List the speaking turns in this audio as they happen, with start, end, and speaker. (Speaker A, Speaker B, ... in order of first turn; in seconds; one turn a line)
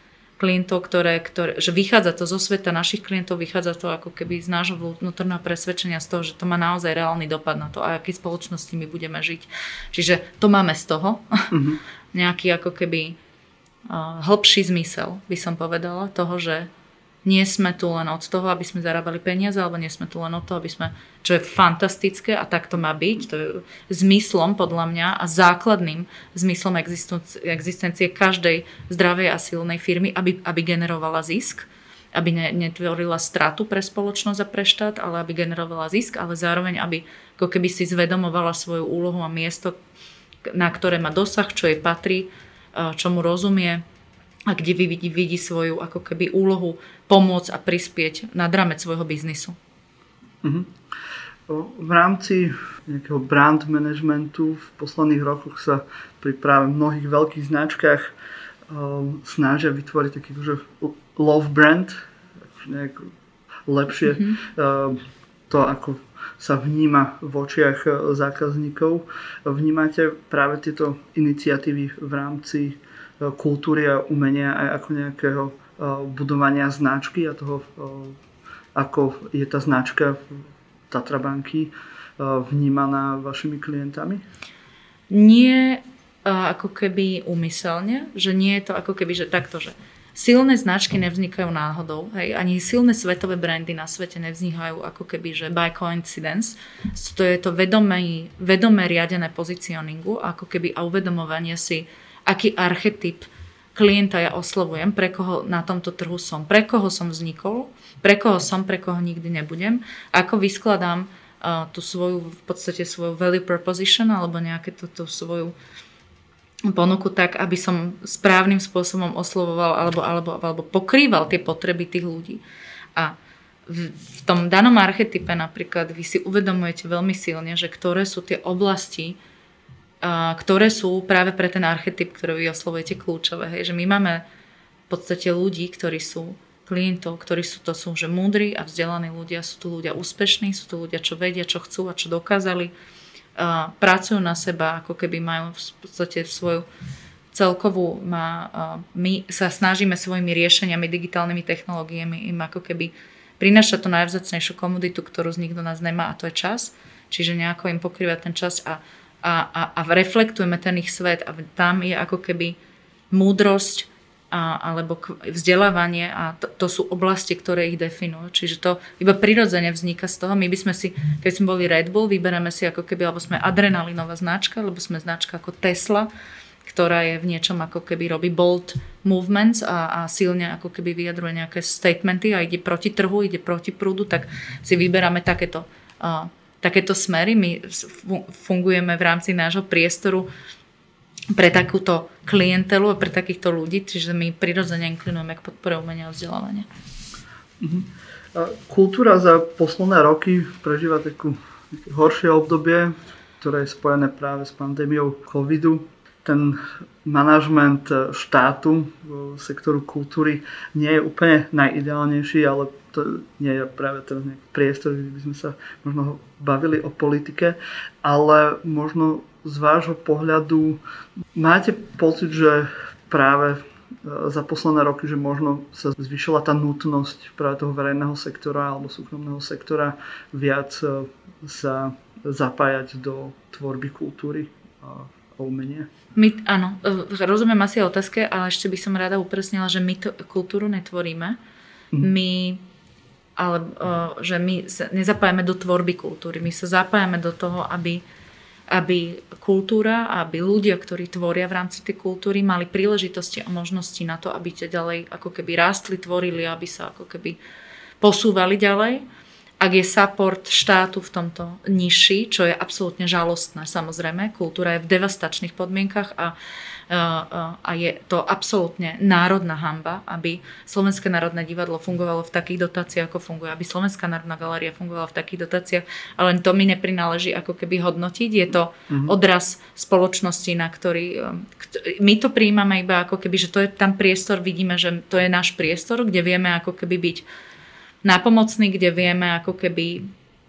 Speaker A: 0.4-11.5
Speaker B: 11.5-11.8
Speaker A: 12.1-13.2
Speaker A: 13.9-16.7
Speaker A: 17.2-39.7
Speaker A: 40.5-43.8
Speaker A: 44.5-49.6
Speaker B: 50.4-50.8
Speaker B: 51.5-58.1
Speaker B: 58.7-62.0
Speaker B: 62.6-63.1
Speaker B: 63.7-78.2
Speaker A: 64.1-64.4
Speaker B: 78.8-84.2
Speaker A: 85.1-115.5
Speaker A: 116.7-122.4
Speaker A: 123.7-129.2
Speaker A: 130.0-134.2
Speaker A: 134.9-142.7
Speaker A: 143.4-146.7
Speaker A: 147.3-162.6
Speaker A: 163.1-176.1
Speaker A: 176.6-190.3
Speaker A: 191.3-196.7
Speaker B: 197.6-220.8
Speaker B: 221.3-235.9
Speaker A: 236.2-241.4
Speaker A: 242.0-242.6
Speaker A: 243.4-248.0
Speaker A: 248.7-257.4
Speaker A: 258.0-259.0
Speaker A: 259.6-266.4
Speaker A: 266.9-287.2
Speaker B: 278.9-279.1
Speaker A: 288.0-290.0